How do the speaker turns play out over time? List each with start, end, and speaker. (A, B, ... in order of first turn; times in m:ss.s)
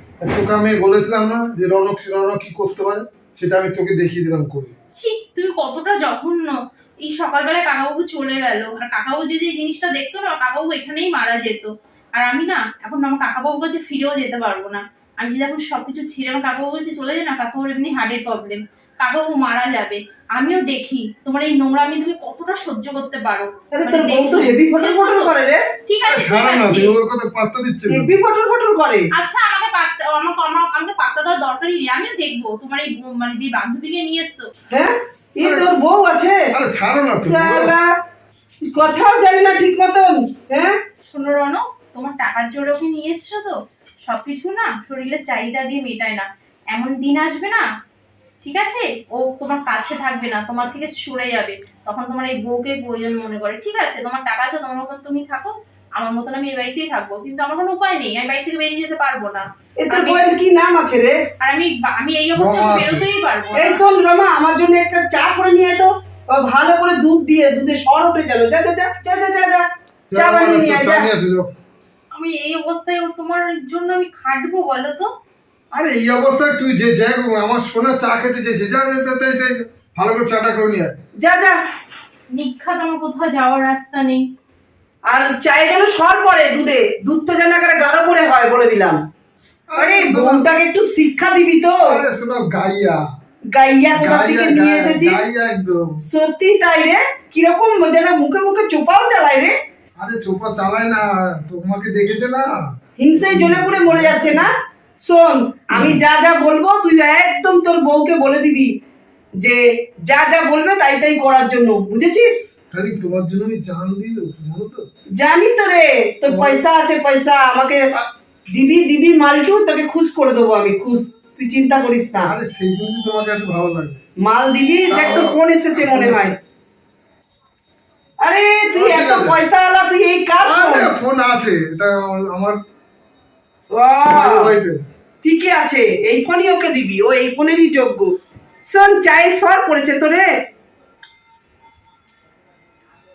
0:00.2-0:04.8 A
0:04.9-0:25.3 B
0:23.7-0:25.6 C
0:25.9-0:27.0 B
0:26.0-0:28.1 A
0:27.9-0:29.1 C
0:29.2-0:34.5 B
0:34.7-0:36.5 C
0:35.4-0:35.7 A
0:36.5-0:37.8 A
0:37.2-0:38.0 C
0:38.7-0:40.8 C
0:41.1-0:47.6 B
0:48.4-1:00.3 B
0:59.8-1:01.2 C
1:01.4-1:03.8 B
1:02.4-1:03.0 A
1:03.6-1:11.1 C
1:10.1-1:11.5 A
1:12.2-1:15.1 B
1:15.7-1:21.0 A
1:21.2-1:21.6 C
1:22.4-1:24.2 B
1:25.1-1:29.0 C
1:29.7-1:30.5 A
1:29.8-1:32.0 C
1:31.8-1:33.0 A
1:33.5-1:35.2 C
1:34.0-1:36.0 A
1:36.1-1:39.6 C
1:40.0-1:42.6 A
1:43.0-1:48.8 C
1:43.1-1:44.5 A
1:45.7-1:46.0 A
1:49.4-1:52.5 C
1:52.7-1:54.9 A
1:55.2-1:57.9 C
1:56.3-1:56.6 A
1:58.5-2:02.3 C
2:02.2-2:04.0 A
2:04.2-2:06.4 C
2:04.9-2:06.4 A
2:08.2-2:10.9 C
2:08.7-2:09.4 A
2:10.4-2:12.6 A
2:13.7-2:14.5 C
2:14.1-2:14.8 A
2:15.2-2:18.1 C
2:18.6-2:20.3 C